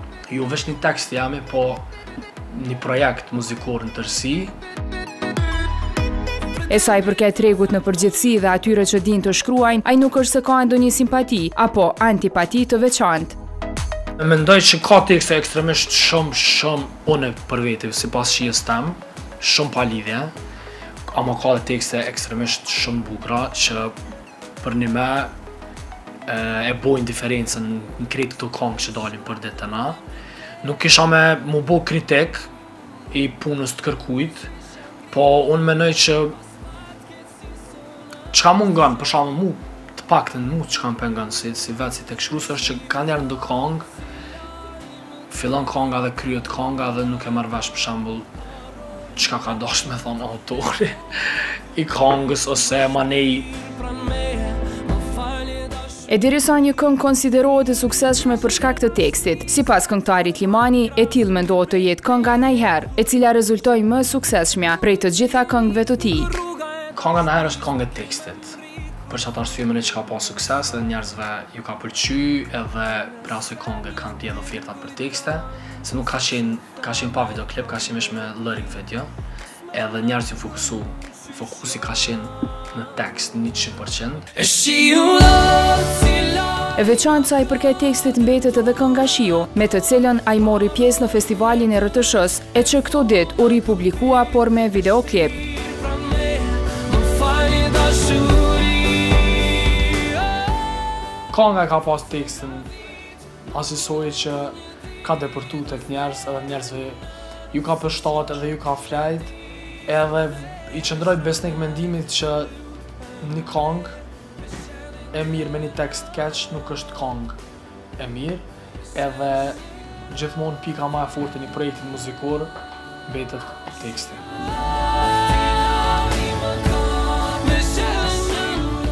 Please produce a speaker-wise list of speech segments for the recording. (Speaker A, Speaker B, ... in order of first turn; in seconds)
Speaker A: 0.3-1.9, 2.5-4.5, 14.2-20.3, 21.1-23.9, 24.6-25.3, 26.2-30.0, 30.6-32.5, 33.1-34.5, 35.1-36.4, 38.3-43.9, 45.3-48.3, 49.1-53.8, 66.9-79.1, 79.7-84.5, 101.3-102.7, 103.5-107.0, 107.5-109.3, 109.8-112.5, 113.2-114.0, 115.1-117.4, 118.0-122.5, 123.0-124.2
Speaker B: 6.7-13.4, 56.1-66.3, 86.7-95.4
Speaker C: 53.9-55.9, 84.4-86.7, 95.7-100.2, 125.1-128.8